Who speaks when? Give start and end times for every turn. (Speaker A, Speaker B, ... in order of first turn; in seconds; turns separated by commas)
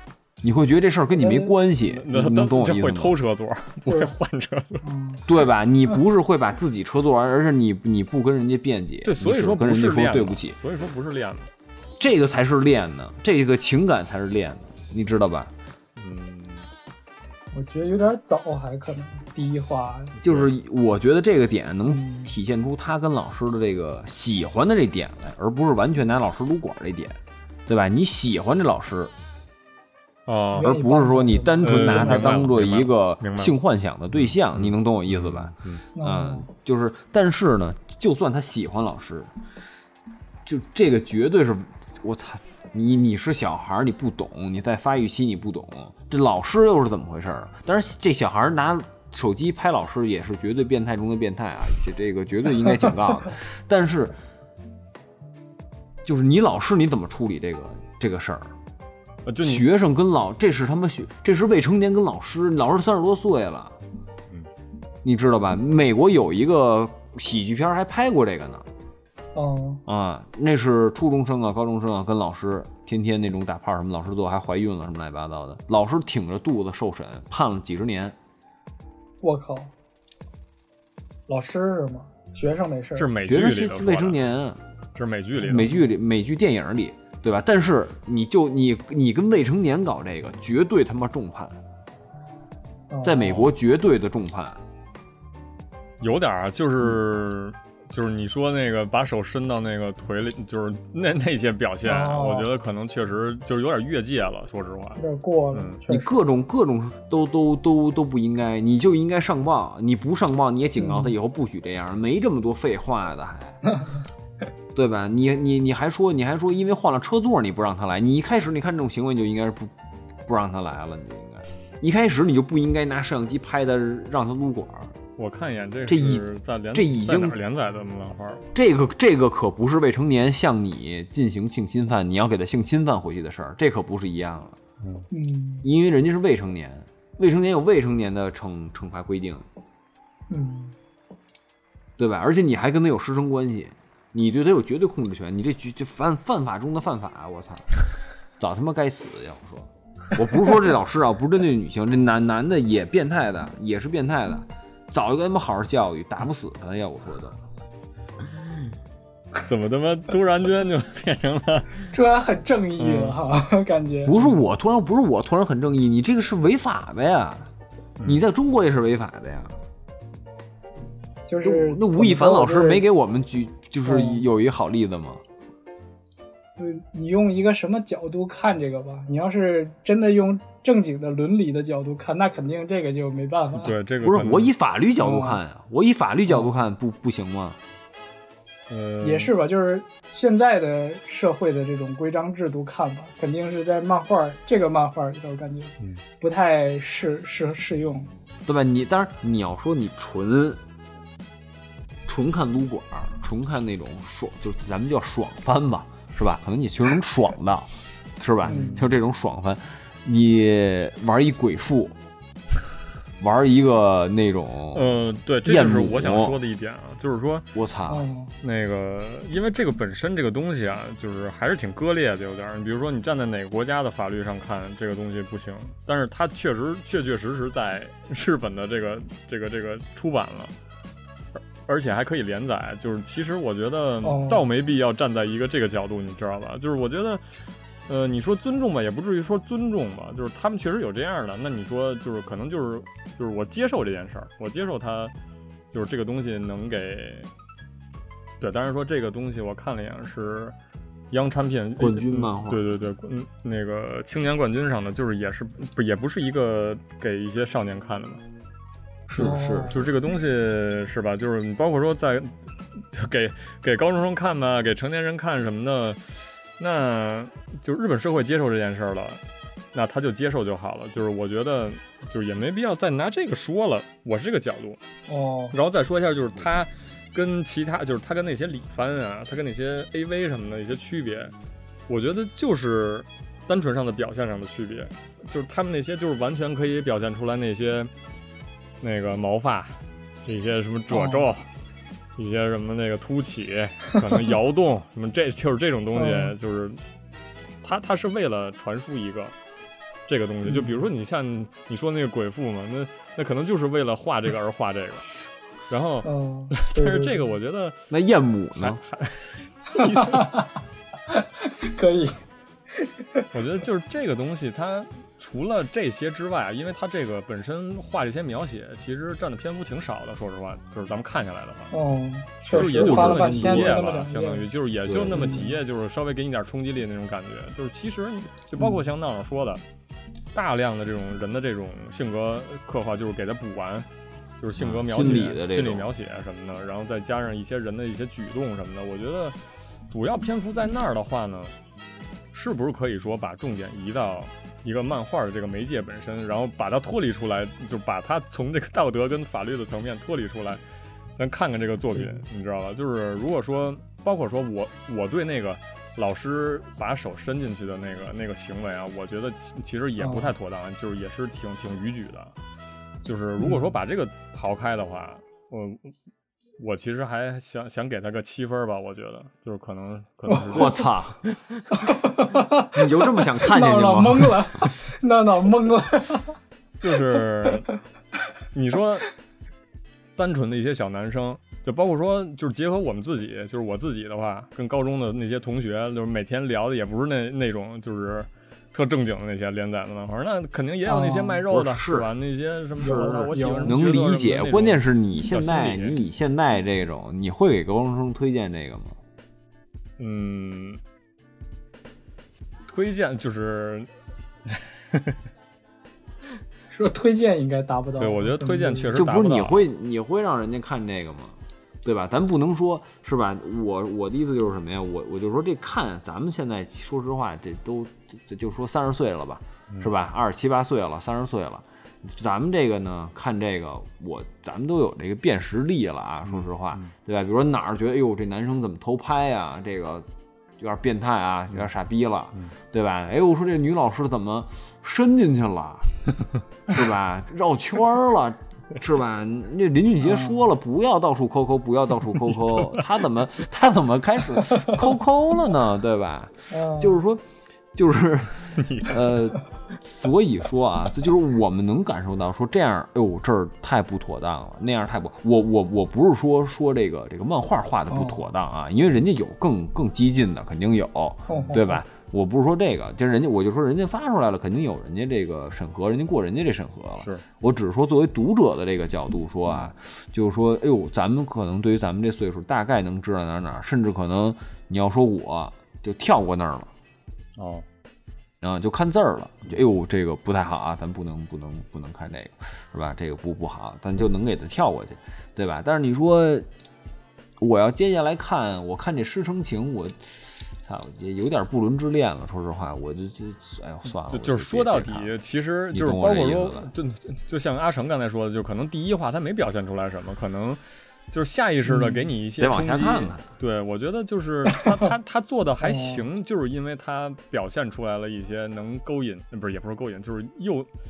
Speaker A: 0.4-3.2, Speaker B: 1.1-1.5, Speaker C: 1.8-4.8, Speaker B: 3.9-4.1, Speaker B: 4.8-5.2, Speaker A: 5.2-10.6, Speaker C: 9.0-11.5, Speaker A: 12.0-15.5, Speaker C: 16.0-16.7, Speaker B: 17.5-20.1, Speaker A: 20.2-29.1, Speaker C: 20.2-20.5, Speaker B: 21.9-22.3, Speaker C: 30.3-30.8, Speaker B: 30.5-32.4, Speaker A: 30.6-39.3, Speaker C: 31.6-33.5, Speaker C: 34.1-35.8, Speaker B: 35.9-36.5, Speaker A: 40.4-54.2, Speaker A: 56.0-58.5, Speaker C: 59.2-59.6, Speaker A: 59.4-63.8, Speaker A: 65.0-68.7, Speaker B: 69.3-69.8, Speaker A: 69.9-78.2, Speaker B: 79.2-79.7, Speaker B: 81.3-83.1, Speaker C: 83.0-84.2, Speaker A: 83.2-84.6, Speaker C: 85.0-85.7, Speaker A: 85.4-91.6, Speaker B: 85.5-85.8, Speaker B: 92.9-93.4, Speaker A: 93.0-94.6, Speaker C: 96.0-105.0, Speaker B: 101.8-102.5, Speaker B: 105.0-106.2, Speaker C: 105.5-105.8, Speaker A: 105.9-113.6, Speaker B: 110.8-111.1, Speaker A: 114.7-119.7, Speaker A: 120.2-125.0, Speaker C: 125.2-128.4, Speaker A: 125.9-127.4, Speaker A: 128.5-134.6, Speaker C: 134.8-135.1, Speaker B: 135.1-135.7, Speaker A: 135.6-139.4, Speaker B: 140.3-140.8, Speaker A: 142.0-147.7, Speaker A: 148.4-157.4, Speaker C: 158.4-158.7, Speaker C: 159.4-161.9, Speaker B: 161.9-164.4, Speaker C: 162.8-163.2, Speaker A: 164.0-167.5, Speaker A: 168.0-169.6, Speaker B: 171.3-172.8, Speaker A: 171.4-175.2, Speaker B: 173.9-174.2, Speaker B: 176.6-183.7, Speaker C: 183.5-184.5, Speaker A: 184.0-187.6, Speaker B: 185.0-185.4, Speaker C: 188.7-189.3, Speaker B: 189.0-198.1, Speaker A: 198.4-200.6, Speaker A: 202.1-212.0, Speaker B: 208.4-208.9, Speaker A: 213.2-216.4, Speaker C: 214.7-217.5, Speaker A: 217.5-218.0, Speaker B: 217.9-218.3, Speaker C: 218.4-230.5, Speaker C: 231.3-237.2, Speaker B: 234.0-234.5, Speaker C: 237.9-245.1, Speaker C: 245.7-247.3, Speaker C: 248.4-250.5, Speaker C: 251.1-258.2, Speaker A: 251.8-252.6, Speaker A: 259.1-259.8, Speaker B: 259.1-259.8, Speaker C: 259.2-269.2, Speaker C: 269.7-274.8, Speaker B: 275.1-275.6, Speaker C: 275.5-281.3, Speaker C: 281.9-287.9, Speaker C: 288.8-291.5, Speaker B: 290.9-291.3, Speaker C: 292.2-296.8, Speaker B: 295.9-296.3, Speaker C: 297.6-299.3, Speaker C: 300.1-305.1, Speaker B: 300.4-300.8, Speaker C: 305.7-307.8, Speaker B: 306.0-307.3, Speaker A: 307.9-308.8, Speaker C: 308.6-310.4, Speaker B: 309.8-310.5, Speaker B: 311.1-312.2, Speaker B: 312.8-313.3, Speaker C: 313.3-321.7, Speaker B: 321.7-324.5, Speaker A: 322.5-323.9, Speaker C: 322.5-329.6, Speaker A: 324.9-325.3, Speaker B: 325.1-325.6, Speaker C: 330.3-333.9, Speaker C: 334.4-341.5, Speaker A: 334.6-335.9, Speaker C: 342.3-350.6, Speaker C: 351.2-362.3, Speaker B: 352.0-352.2, Speaker B: 360.0-360.3, Speaker C: 363.0-365.9, Speaker B: 363.4-363.7, Speaker C: 366.6-371.6, Speaker B: 370.3-370.7, Speaker A: 370.5-371.2, Speaker B: 371.7-376.3, Speaker A: 372.7-374.7, Speaker C: 376.8-377.7, Speaker C: 378.5-379.1, Speaker C: 380.2-396.0, Speaker B: 390.9-391.4, Speaker A: 391.5-392.1, Speaker B: 392.8-393.8, Speaker A: 392.9-399.0, Speaker C: 400.0-400.8, Speaker C: 402.7-403.9, Speaker C: 404.5-405.1, Speaker B: 406.7-408.9, Speaker C: 408.0-409.6, Speaker A: 408.9-430.1, Speaker C: 426.3-426.9, Speaker A: 430.6-436.0, Speaker A: 436.7-476.7, Speaker B: 440.0-440.4, Speaker B: 446.5-447.0, Speaker C: 448.6-449.1, Speaker B: 457.9-458.2, Speaker B: 461.3-461.8, Speaker C: 461.3-461.6, Speaker C: 467.0-467.2, Speaker C: 477.4-477.6, Speaker A: 478.4-486.5, Speaker A: 487.4-495.1, Speaker C: 494.1-510.7, Speaker A: 495.7-496.7, Speaker B: 501.6-502.1, Speaker A: 502.4-503.3, Speaker B: 505.6-506.0